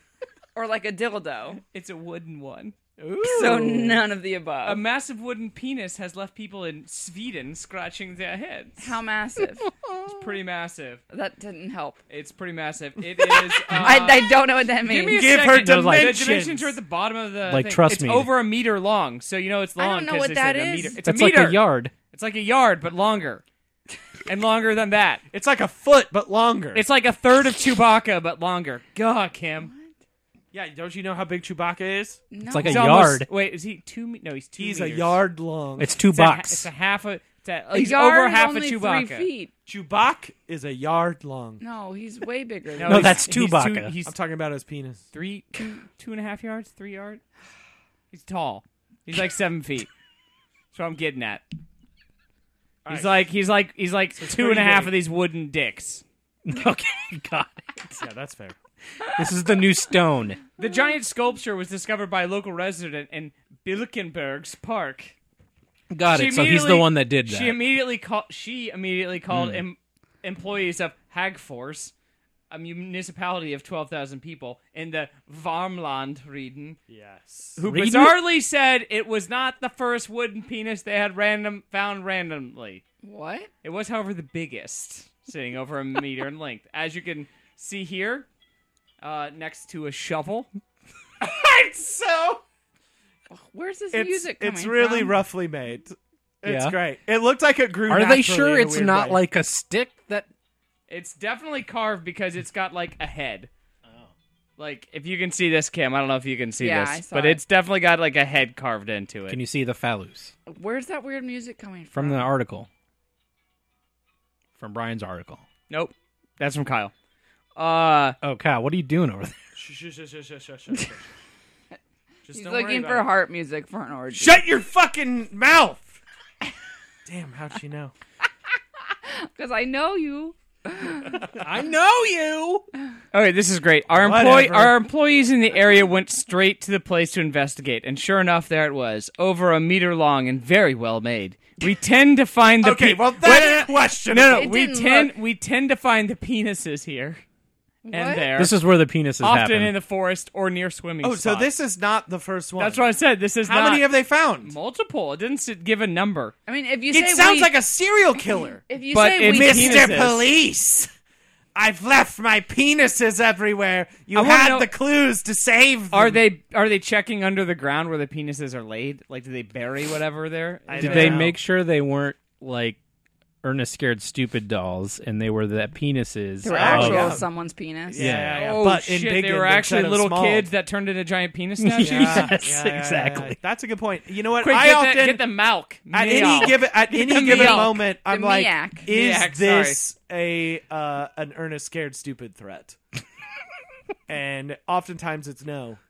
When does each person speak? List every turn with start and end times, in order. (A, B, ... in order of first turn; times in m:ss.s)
0:00.5-0:01.6 A
0:01.6-0:02.8 B
0:03.0-0:04.0 C
0:03.2-0:04.8 A
0:04.6-0:09.0 B
0:08.8-0:09.7 A
0:10.0-0:11.0 B
0:11.1-0:12.0 A
0:12.1-0:23.4 B
0:13.7-0:14.0 C
0:13.7-0:15.3 A
0:15.1-0:16.8 C
0:15.5-0:16.2 D
0:17.5-0:18.3 D
0:19.8-0:21.0 A
0:21.0-0:21.9 D
0:24.3-0:25.2 B
0:25.3-0:26.8 C
0:26.8-0:29.7 B
0:29.6-0:29.9 A
0:30.5-0:32.2 C
0:32.3-0:32.9 A
0:32.5-0:33.3 D
0:32.6-0:35.2 B
0:34.6-0:35.9 C
0:35.8-0:36.7 D
0:36.1-0:39.3 B
0:37.7-0:39.5 A
0:39.7-0:41.6 C
0:41.6-0:43.2 A
0:42.8-0:44.1 B
0:42.8-0:43.9 D
0:44.0-0:45.0 C
0:45.1-0:47.2 B
0:48.1-0:49.9 B
0:50.7-0:51.4 B
0:52.8-0:53.1 C
0:52.9-0:56.0 B
0:54.2-0:54.9 C
0:56.4-0:58.0 D
0:58.0-0:58.6 C
0:59.0-1:00.4 D
1:00.6-1:05.1 B
1:05.9-1:07.6 D
1:06.1-1:11.9 B
1:09.3-1:09.6 D
1:12.5-1:16.8 B
1:16.9-1:17.6 C
1:17.6-1:22.8 B
1:17.7-1:18.2 D
1:23.0-1:23.5 A
1:23.6-1:28.3 B
1:29.0-1:30.5 B
1:31.2-1:32.4 C
1:33.3-1:35.2 A
1:33.9-1:39.2 C
1:36.4-1:36.8 D
1:37.9-1:40.3 D
1:40.9-1:43.5 B
1:44.6-1:49.4 B
1:46.6-1:47.4 A
1:49.3-1:50.3 D
1:50.5-1:52.3 A
1:51.9-1:52.7 D
1:54.6-1:55.4 D
1:55.7-1:56.9 B
1:57.6-1:58.2 B
1:58.2-1:59.4 D
1:59.6-2:01.0 C
2:02.3-2:03.1 C
2:02.3-2:04.4 A
2:04.2-2:05.9 C
2:07.0-2:07.9 C
2:09.0-2:11.2 A
2:11.3-2:12.7 D
2:13.1-2:27.2 B
2:13.9-2:14.8 C
2:22.6-2:24.5 C
2:24.2-2:25.1 A
2:27.8-2:28.3 A
2:27.9-2:28.6 B
2:28.4-2:29.7 D
2:29.2-2:31.5 B
2:31.0-2:32.9 C
2:32.6-2:33.9 B
2:33.4-2:34.6 C
2:34.4-2:36.4 B
2:36.5-2:37.6 A
2:36.9-2:38.6 C
2:38.6-2:40.0 A
2:38.9-2:40.2 B
2:39.2-2:40.9 C
2:41.6-2:46.2 C
2:44.1-2:44.7 B
2:45.9-2:51.3 B
2:50.7-2:51.4 C
2:50.8-2:52.8 D
2:53.4-2:57.2 D
2:56.4-2:58.1 A
2:56.5-2:57.3 C
2:57.9-3:00.5 C
2:58.0-2:58.5 D
2:58.3-3:02.4 B
3:01.6-3:03.4 D
3:01.8-3:05.2 C
3:04.4-3:07.8 B
3:05.9-3:12.8 C
3:07.2-3:08.9 A
3:08.9-3:09.8 B
3:14.1-3:15.8 C